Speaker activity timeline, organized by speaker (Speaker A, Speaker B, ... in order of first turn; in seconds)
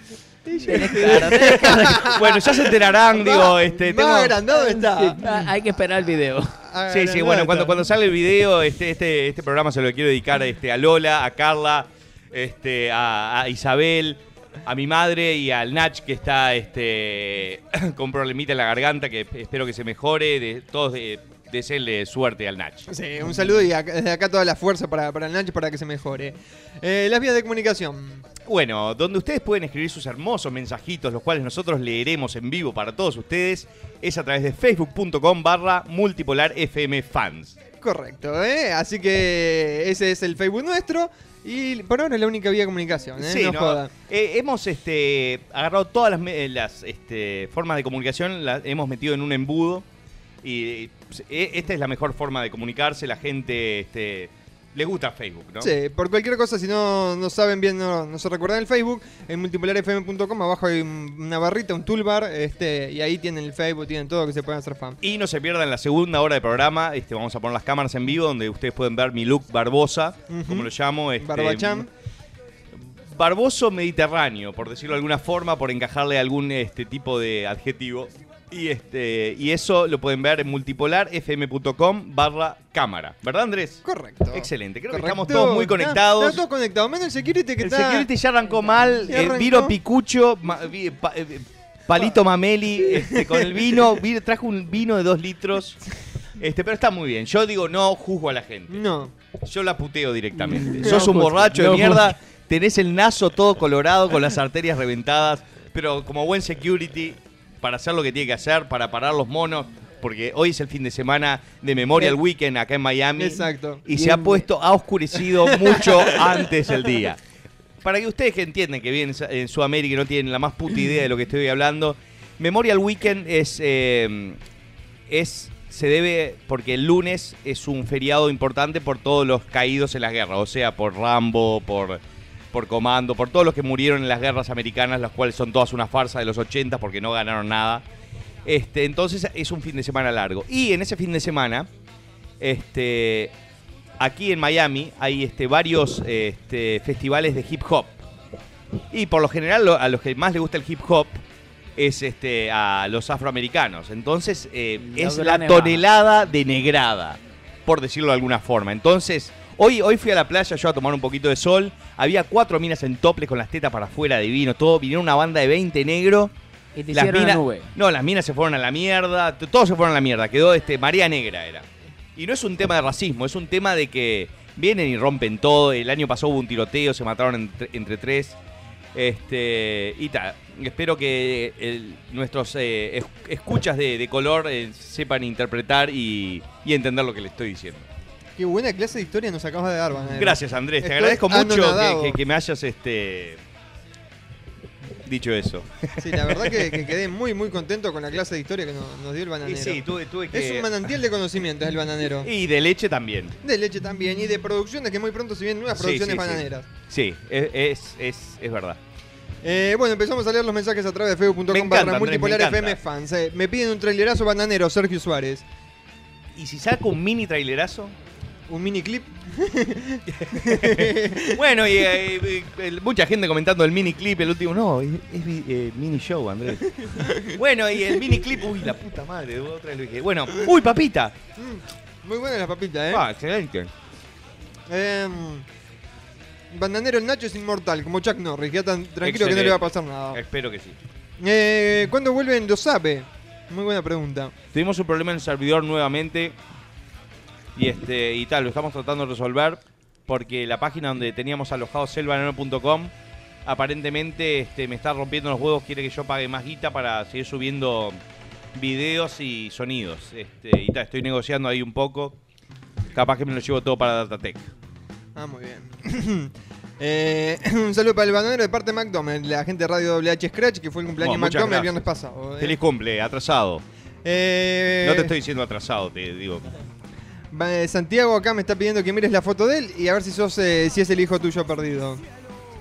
Speaker A: 0.5-5.4, 6.6-7.9, 22.9-28.2, 37.8-43.9, 55.6-65.0, 70.3-71.9, 83.8-88.1, 89.1-89.8, 92.9-94.0, 98.7-99.1, 100.8-101.1, 113.2-114.5, 115.4-116.2, 188.4-192.2, 196.0-202.3, 203.4-206.7, 209.4-215.4, 218.5-221.4, 226.8-227.4, 231.4-233.1, 234.7-235.4, 236.5-240.2, 241.2-244.3, 265.2-272.6, 274.0-275.1, 277.3-282.0
Speaker B: 0.7-2.2, 4.5-6.5, 100.4-102.2, 154.8-155.8, 166.8-167.7
Speaker C: 0.7-4.4, 6.9-22.9, 28.5-37.6, 43.2-49.9, 50.4-55.7, 65.0-71.9, 73.1-86.4, 87.6-95.8, 96.4-98.8, 99.4-117.2, 117.8-124.4, 125.1-132.0, 132.5-137.8, 138.4-141.7, 142.4-143.3, 144.0-148.0, 148.9-151.2, 151.8-166.3, 166.9-178.4, 178.9-187.9, 190.1-193.4, 195.1-196.9, 199.4-200.7, 202.2-203.3, 205.8-208.8, 211.5-212.8, 216.4-217.9, 220.2-226.7, 227.4-231.2, 232.9-233.7, 239.0-240.8, 244.5-246.3, 247.6-252.9, 253.5-258.0, 258.6-262.2, 262.9-264.5, 271.0-271.8, 272.4-273.6, 274.8-276.4